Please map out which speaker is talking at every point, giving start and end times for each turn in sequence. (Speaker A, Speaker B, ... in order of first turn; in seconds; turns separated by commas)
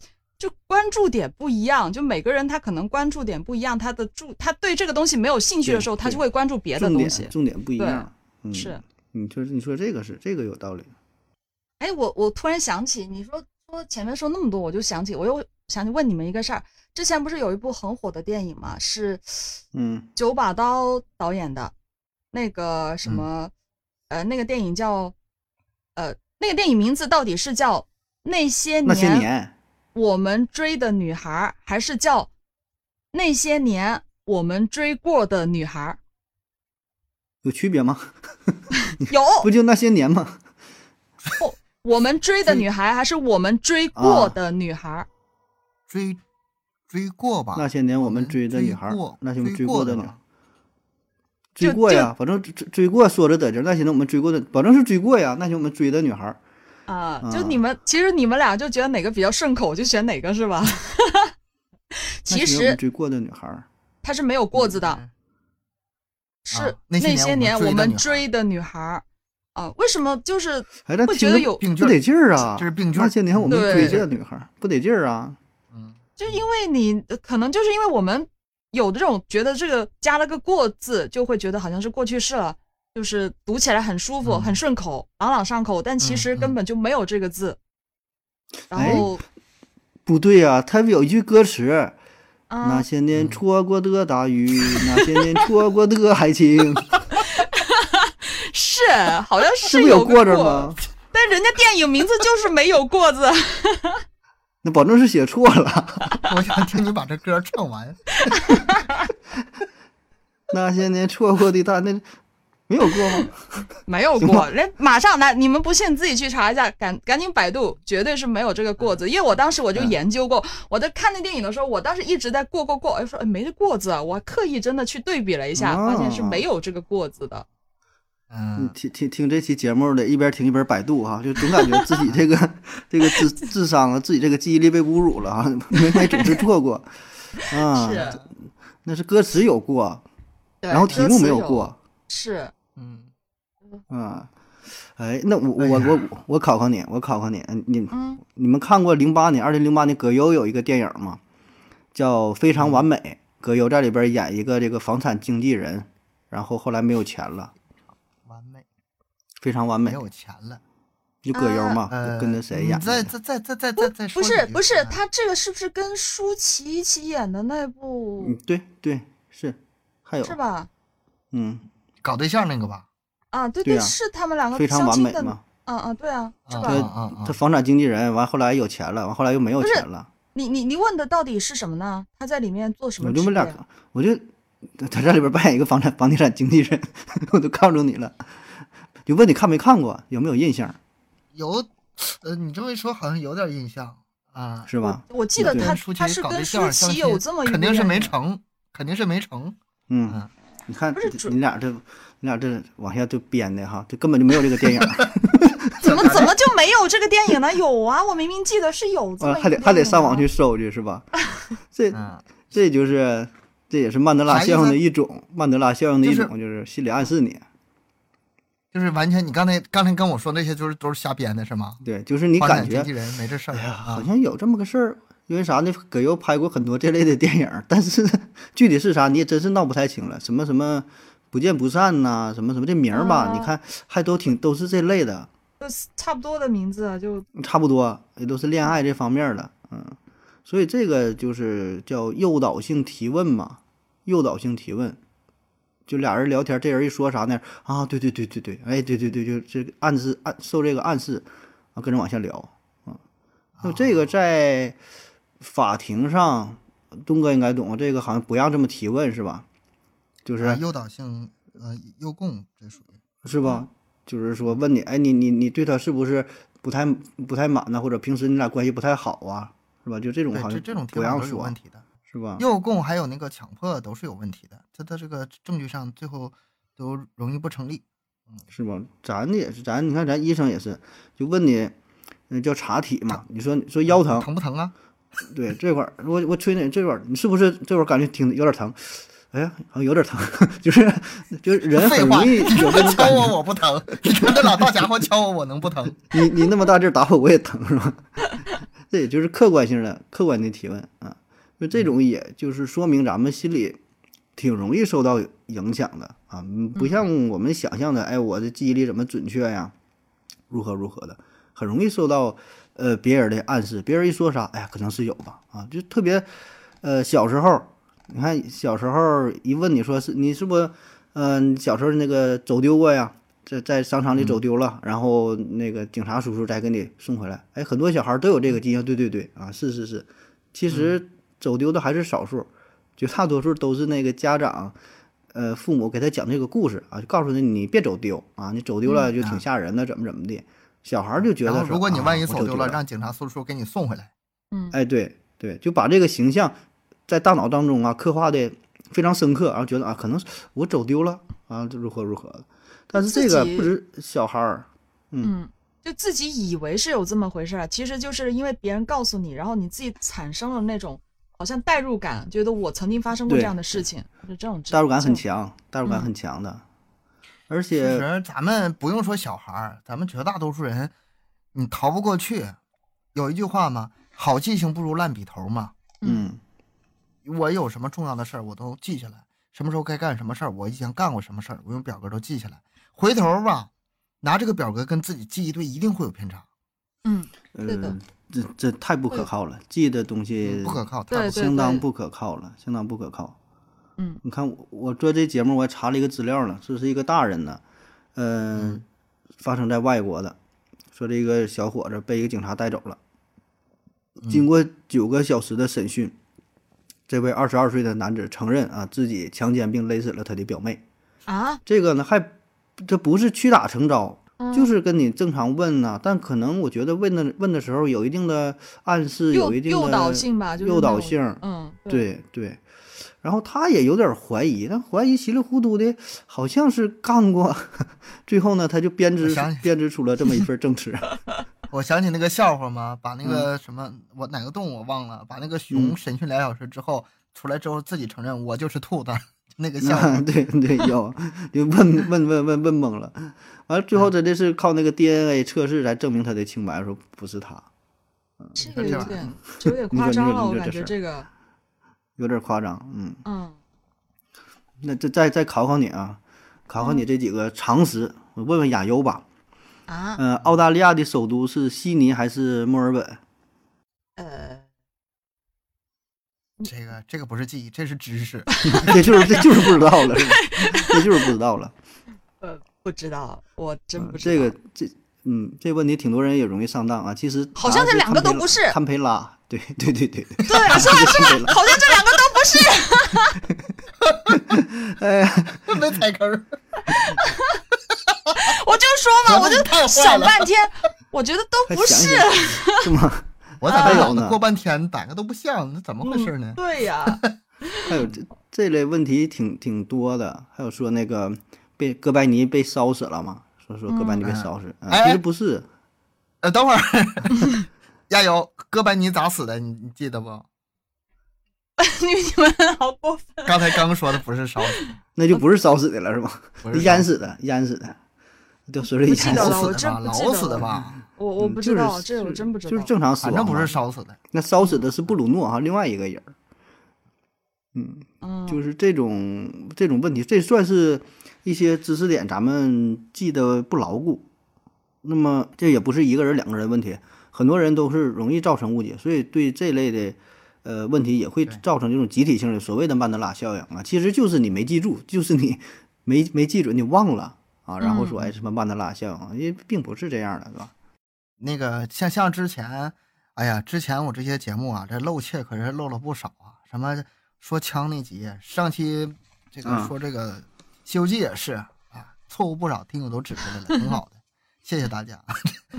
Speaker A: 0.4-8.8, Speaker B: 5.6-6.2, Speaker B: 6.7-10.9, Speaker A: 11.8-19.6, Speaker B: 19.7-20.1, Speaker A: 20.1-21.7, Speaker A: 22.3-23.5, Speaker A: 24.1-25.1, Speaker A: 25.9-29.3, Speaker B: 28.8-29.5, Speaker A: 29.9-32.3, Speaker A: 33.1-36.0, Speaker B: 37.4-38.6, Speaker A: 38.9-39.5, Speaker B: 39.4-40.4, Speaker A: 41.4-45.1, Speaker B: 44.0-44.3, Speaker C: 45.9-46.2, Speaker C: 46.9-50.2, Speaker B: 47.5-50.1, Speaker B: 51.5-56.4, Speaker A: 51.6-52.1, Speaker A: 56.9-61.3, Speaker B: 57.2-57.6, Speaker A: 61.9-62.8, Speaker B: 62.3-63.6, Speaker A: 64.0-65.0, Speaker C: 64.8-65.1, Speaker A: 66.5-71.6, Speaker C: 66.5-68.2, Speaker B: 70.8-75.4, Speaker C: 71.6-74.0, Speaker A: 73.5-74.0, Speaker C: 75.7-76.0, Speaker A: 76.2-87.6, Speaker C: 84.2-84.6, Speaker C: 86.0-86.5, Speaker A: 88.7-89.2, Speaker B: 88.7-89.1, Speaker C: 88.8-89.0, Speaker B: 90.0-92.0, Speaker A: 92.5-92.9, Speaker B: 92.6-97.0, Speaker C: 93.1-93.4, Speaker A: 94.8-95.2, Speaker A: 97.1-104.0, Speaker B: 99.6-100.8, Speaker B: 104.6-106.2, Speaker C: 106.2-108.2, Speaker A: 108.2-109.0, Speaker B: 110.5-112.0, Speaker B: 112.7-113.5, Speaker A: 113.8-127.5, Speaker B: 114.2-114.4, Speaker B: 125.5-126.4, Speaker C: 128.3-128.7, Speaker B: 128.6-138.3, Speaker A: 131.5-131.8, Speaker A: 135.8-136.4, Speaker A: 137.4-138.2, Speaker B: 138.8-140.0, Speaker A: 140.6-142.5, Speaker B: 140.7-141.8, Speaker C: 142.8-143.1, Speaker B: 143.9-144.3, Speaker B: 144.9-151.2, Speaker C: 145.6-146.0, Speaker A: 147.9-148.2, Speaker B: 151.9-157.5, Speaker C: 152.6-152.8, Speaker C: 158.2-158.6, Speaker B: 159.4-160.0, Speaker C: 159.8-160.6, Speaker B: 161.2-163.1, Speaker A: 161.3-161.8, Speaker C: 161.9-165.0, Speaker A: 163.8-168.4, Speaker B: 168.2-170.3, Speaker A: 170.2-170.7, Speaker B: 171.3-171.7, Speaker C: 172.0-172.8, Speaker A: 173.3-176.8, Speaker B: 173.6-173.9, Speaker B: 174.5-175.4, Speaker C: 176.5-177.4, Speaker B: 176.6-180.1, Speaker A: 179.6-183.6, Speaker B: 183.0-184.2, Speaker B: 184.8-188.2, Speaker B: 189.1-190.8, Speaker C: 191.3-194.7, Speaker B: 194.7-195.7, Speaker A: 194.8-198.1, Speaker C: 195.4-199.6, Speaker B: 199.9-206.3, Speaker A: 200.9-201.3, Speaker C: 205.8-206.3, Speaker A: 205.8-210.2, Speaker B: 209.2-211.1, Speaker B: 211.7-217.4, Speaker C: 211.9-212.2, Speaker C: 214.3-214.8, Speaker C: 216.0-216.3, Speaker C: 218.7-221.8, Speaker B: 221.8-222.9, Speaker C: 222.4-224.1, Speaker B: 223.5-235.3, Speaker A: 232.9-233.5, Speaker A: 235.6-237.2, Speaker B: 237.3-245.0, Speaker B: 245.9-253.0, Speaker C: 253.6-253.9, Speaker B: 253.6-254.8, Speaker B: 255.4-259.4, Speaker B: 260.2-260.6, Speaker C: 260.4-262.9, Speaker B: 263.2-271.5, Speaker C: 270.3-271.8, Speaker B: 272.1-272.4, Speaker C: 272.4-277.8, Speaker B: 278.5-281.7, Speaker B: 282.3-284.3, Speaker C: 283.9-284.7, Speaker B: 285.3-293.4, Speaker C: 291.7-296.0, Speaker B: 294.1-294.6, Speaker B: 296.1-298.1, Speaker B: 298.9-303.8, Speaker B: 304.4-309.7, Speaker A: 306.8-307.0, Speaker B: 310.5-316.3, Speaker B: 316.8-334.7, Speaker C: 330.7-331.0, Speaker B: 335.3-342.8, Speaker C: 341.4-344.1, Speaker B: 344.7-346.6, Speaker B: 347.1-355.3, Speaker A: 352.9-353.7, Speaker A: 355.2-365.2, Speaker B: 363.3-363.8, Speaker B: 364.7-366.6, Speaker A: 365.8-366.1, Speaker B: 367.5-368.1, Speaker C: 367.8-370.9, Speaker C: 371.5-372.6, Speaker C: 373.1-375.7, Speaker A: 376.0-376.3, Speaker B: 376.0-376.4, Speaker C: 377.2-383.7, Speaker C: 384.2-386.4, Speaker A: 387.0-388.0, Speaker B: 387.5-393.3, Speaker C: 390.4-391.4, Speaker A: 391.1-391.8, Speaker B: 394.2-397.6, Speaker B: 398.1-398.8, Speaker C: 398.6-398.8, Speaker B: 399.4-400.4, Speaker B: 400.9-403.0, Speaker B: 404.2-406.1, Speaker B: 407.1-410.8, Speaker A: 411.3-411.6, Speaker B: 411.6-422.6, Speaker A: 414.4-414.7, Speaker A: 419.3-422.0, Speaker B: 423.2-431.2, Speaker C: 429.2-429.7, Speaker C: 431.7-440.2, Speaker B: 435.7-435.9, Speaker B: 439.8-447.6, Speaker B: 448.4-450.9, Speaker A: 448.6-451.3, Speaker C: 448.8-449.1, Speaker B: 452.2-453.2, Speaker A: 453.2-453.6, Speaker B: 454.8-459.2, Speaker A: 456.8-457.0, Speaker A: 459.9-460.2, Speaker B: 460.2-463.2, Speaker A: 464.2-464.6, Speaker C: 466.6-469.0, Speaker A: 468.5-471.2, Speaker B: 468.6-471.7, Speaker A: 472.4-474.5, Speaker B: 474.0-481.8, Speaker A: 477.6-478.8, Speaker A: 480.4-483.4, Speaker C: 484.0-484.6, Speaker B: 484.3-485.9, Speaker C: 485.7-486.6, Speaker A: 486.9-487.6, Speaker C: 487.9-488.4, Speaker A: 488.4-492.9, Speaker C: 489.2-490.5, Speaker B: 491.7-494.4, Speaker C: 493.6-497.3, Speaker A: 493.7-494.1, Speaker A: 496.0-497.9, Speaker B: 497.9-505.6, Speaker A: 503.9-504.2, Speaker C: 504.2-505.2, Speaker C: 506.4-507.5, Speaker C: 508.1-510.4, Speaker A: 511.8-513.8, Speaker C: 513.5-514.8, Speaker A: 514.7-514.9, Speaker B: 515.1-518.0, Speaker C: 516.6-517.1, Speaker B: 518.7-519.6, Speaker A: 519.1-522.9, Speaker C: 519.2-521.0, Speaker B: 521.4-523.7, Speaker C: 523.2-524.2, Speaker B: 524.3-526.3, Speaker B: 527.7-534.2, Speaker A: 528.2-528.6, Speaker B: 535.0-550.7, Speaker A: 547.8-548.2, Speaker C: 551.4-565.6, Speaker B: 559.6-559.9